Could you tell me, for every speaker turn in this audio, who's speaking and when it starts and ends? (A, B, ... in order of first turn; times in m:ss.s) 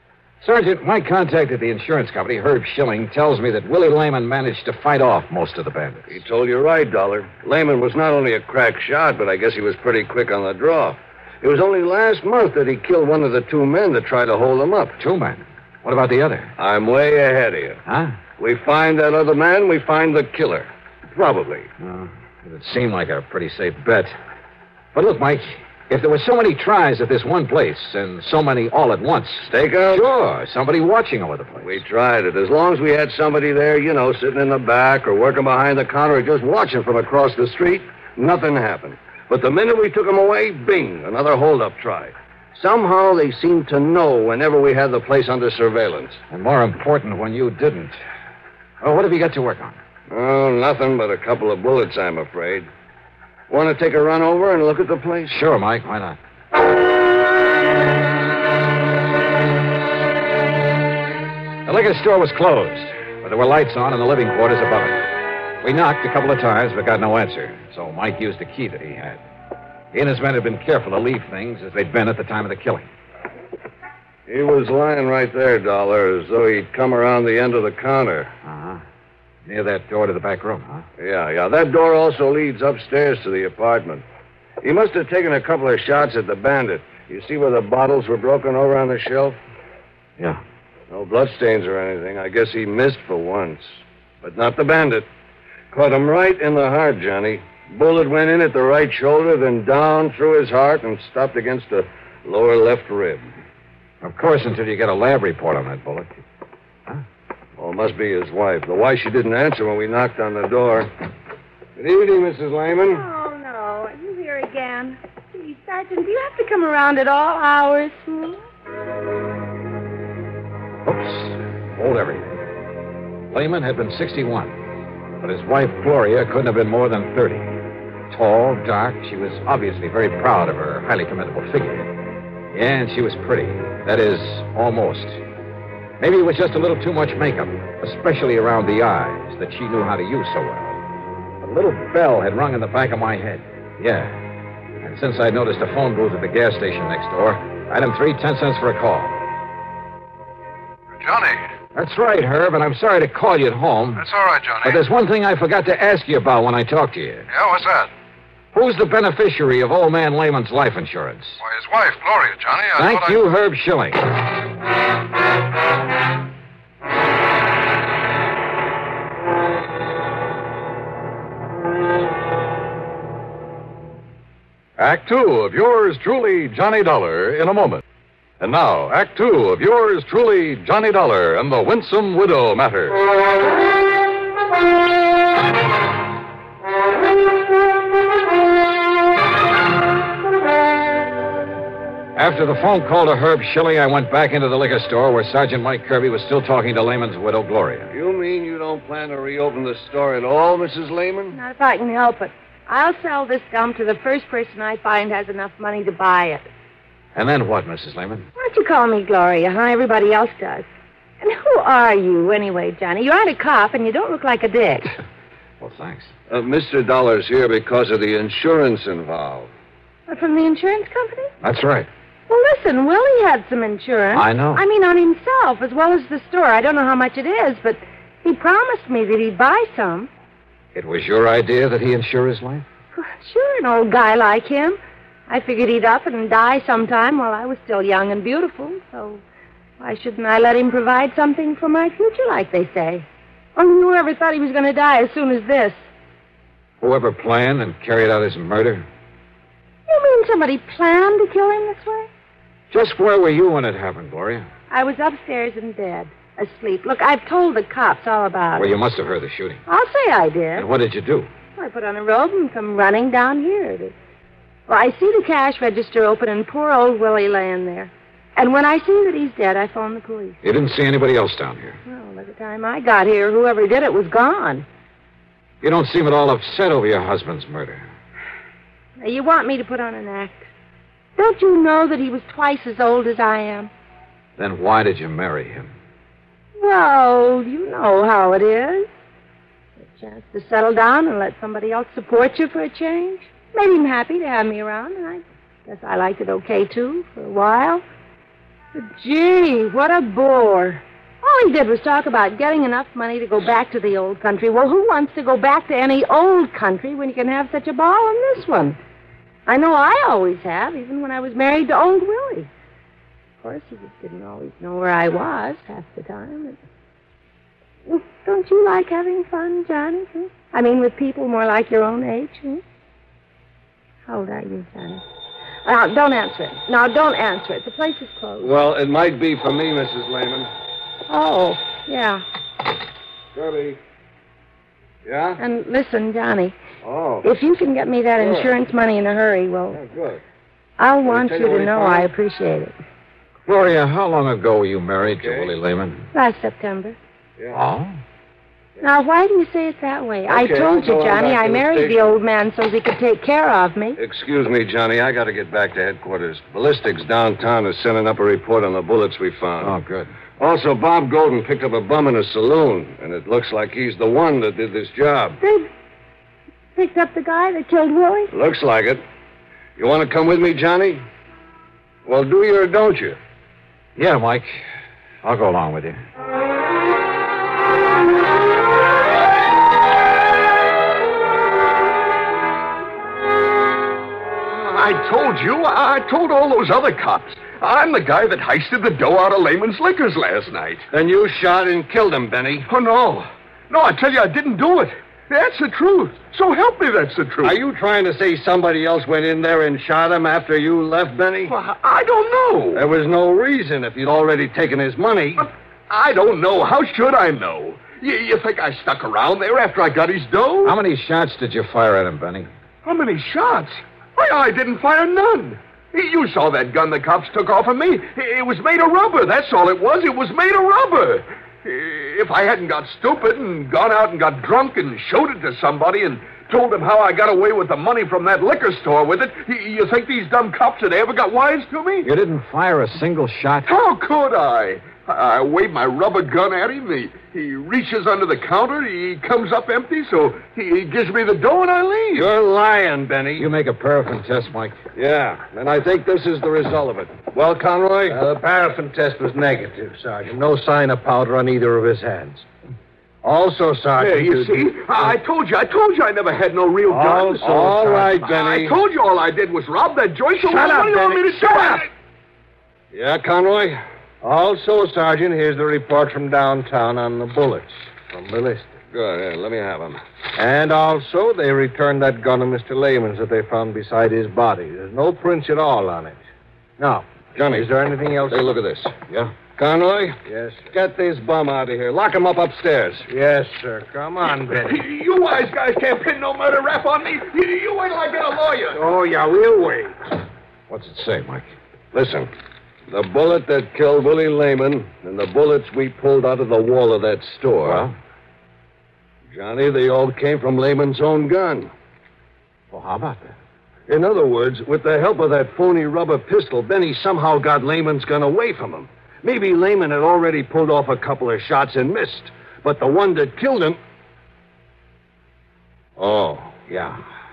0:00.4-0:06.2 A
0:06.1-0:15.0 B
0:15.0-0:16.5 A
0:16.6-0:17.8 B
0:17.9-0:18.2 A
0:18.4-0:21.7 B
0:21.8-0:24.2 A
0:24.9-0:31.8 A
0:29.4-0:30.1 B
0:31.6-0:46.2 B
0:46.3-0:48.0 A
0:48.8-0:49.8 A
0:50.1-0:52.7 B
0:53.5-0:55.4 B
0:55.3-0:56.2 A
1:01.7-1:05.1 A
1:05.6-1:09.2 A
1:09.9-1:12.9 A
1:14.3-1:18.3 B
1:18.4-1:18.8 A
1:19.5-1:20.8 A
1:21.0-1:24.0 B
1:24.6-1:29.4 B
1:30.9-1:35.1 B
1:35.7-1:43.3 B
1:44.0-1:46.1 A
1:47.6-1:50.9 B
1:51.8-1:53.0 B
1:53.0-1:58.4 C
2:00.8-2:02.4 A
2:03.3-2:04.6 A
2:05.2-2:11.9 A
2:12.5-2:15.2 A
2:16.0-2:20.8 A
2:21.4-2:24.2 A
2:24.8-2:29.2 A
2:31.0-2:31.4 D
2:31.8-2:34.0 A
2:34.0-2:34.8 D
2:34.6-2:37.3 A
2:37.3-2:37.9 D
2:38.5-2:41.4 A
2:41.4-2:43.3 D
2:42.8-2:44.1 A
2:54.8-2:57.8 E
2:58.4-3:03.0 E
3:12.2-3:17.9 A
3:17.9-3:21.4 B
3:21.4-3:26.5 C
3:27.2-3:28.3 A
3:28.4-3:30.6 C
3:31.2-3:34.9 C
3:35.6-3:36.1 A
3:36.3-3:39.5 B
3:40.1-3:41.3 C
3:41.4-3:41.9 A
3:42.3-3:50.1 C
3:44.1-3:44.6 A
3:50.8-3:52.7 A
3:53.0-3:54.8 C
3:55.3-3:59.2 C
3:59.8-4:03.0 C
4:03.6-4:05.8 C
4:06.8-4:08.9 A
4:09.9-4:12.1 C
4:12.7-4:14.5 A
4:14.7-4:18.7 C
4:18.6-4:19.6 A
4:19.7-4:20.6 C
4:20.6-4:21.3 A
4:21.6-4:23.9 C
4:24.7-4:30.4 C
4:30.4-4:31.8 A
4:31.9-4:34.6 C
4:35.6-4:37.9 A
4:39.0-4:40.5 C
4:41.2-4:43.7 C
4:44.4-4:45.7 A
4:46.6-4:48.9 C
4:49.9-4:57.8 C
4:58.8-5:08.8 C
5:09.5-5:12.5 C
5:13.4-5:16.6 C
5:17.9-5:22.6 C
5:24.1-5:25.0 C
5:25.6-5:28.5 C
5:28.4-5:30.5 B
5:31.1-5:32.2 C
5:33.4-5:33.8 B
5:35.1-5:35.4 B
5:35.4-5:36.6 C
5:36.8-5:37.3 B
5:37.2-5:39.8 C
5:38.2-5:38.6 B
5:39.7-5:40.2 B
5:40.8-5:42.7 C
5:41.0-5:42.1 B
5:43.5-5:46.0 A
5:45.0-5:45.5 B
5:46.1-5:47.0 C
5:47.5-5:48.0 A
5:48.8-5:54.0 C
5:50.3-5:52.2 B
5:54.0-5:59.8 B
5:59.6-6:00.1 A
6:00.4-6:05.4 B
6:05.4-6:05.7 C
6:06.8-6:08.3 C
6:08.3-6:09.0 B
6:09.8-6:11.0 B
6:12.0-6:13.2 B
6:14.0-6:14.6 A
6:15.2-6:16.0 A
6:24.5-6:30.9 F
6:30.9-6:32.7 B
6:32.7-6:37.6 F
6:37.4-6:41.5 B
6:41.5-6:42.9 F
6:42.7-6:45.4 B
6:45.4-6:50.8 F
6:50.6-6:52.5 A
6:52.8-7:12.1 F
7:12.0-7:13.7 A
7:13.7-7:22.3 F
7:22.2-7:23.5 B
7:23.4-7:24.8 A
7:25.0-7:28.2 B
7:28.1-7:32.5 G
7:33.2-7:35.1 G
7:34.0-7:41.9 F
7:36.9-7:38.7 G
7:37.5-7:38.2 B
7:40.4-7:41.9 G
7:42.9-7:43.8 B
7:44.2-7:48.8 G
7:48.9-7:50.0 B
7:50.3-7:56.2 G
7:56.8-7:58.6 G
7:57.4-7:57.7 B
7:58.3-7:58.9 B
7:59.6-8:03.0 B
8:00.2-8:00.7 G
8:03.1-8:04.8 G
8:04.6-8:08.8 F
8:08.7-8:09.9 G
8:10.7-8:11.5 A
8:11.9-8:12.3 B
8:12.9-8:17.8 B
8:17.6-8:18.0 A
8:19.3-8:21.7 B
8:22.7-8:23.4 A
8:23.9-8:33.8 B
8:36.0-8:37.0 A